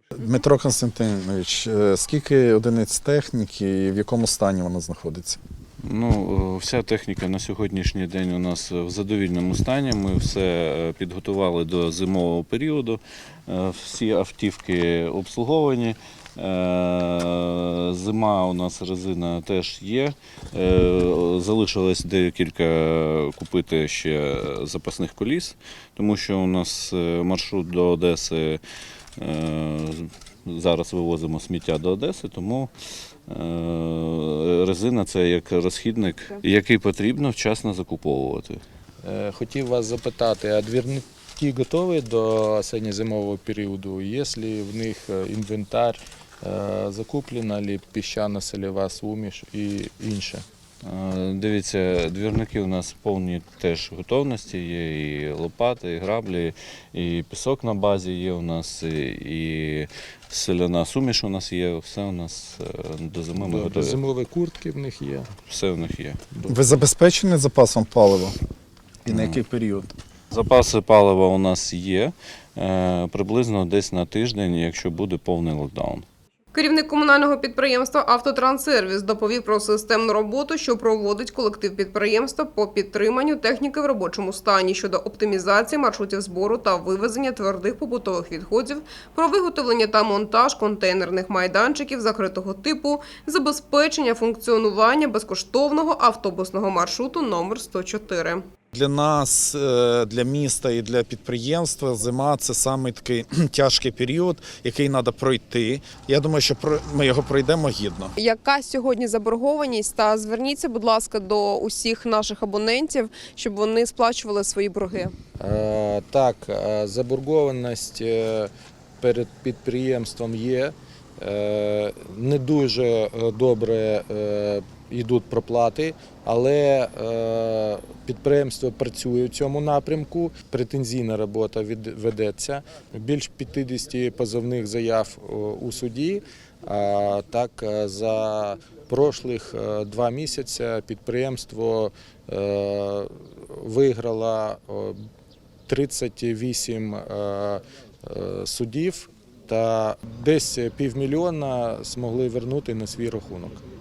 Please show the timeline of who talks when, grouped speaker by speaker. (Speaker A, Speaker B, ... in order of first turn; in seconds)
Speaker A: 0.1-5.4, 66.5-68.4, 69.0-69.9, 98.7-108.1
Speaker B: 5.8-28.6, 29.2-32.7, 33.3-38.6, 50.8-64.0, 65.5-66.2, 69.1-69.4, 70.3-76.0
Speaker C: 39.0-50.4, 63.4-65.3, 115.4-145.0, 145.7-153.6
Speaker D: 76.5-98.4, 108.2-115.2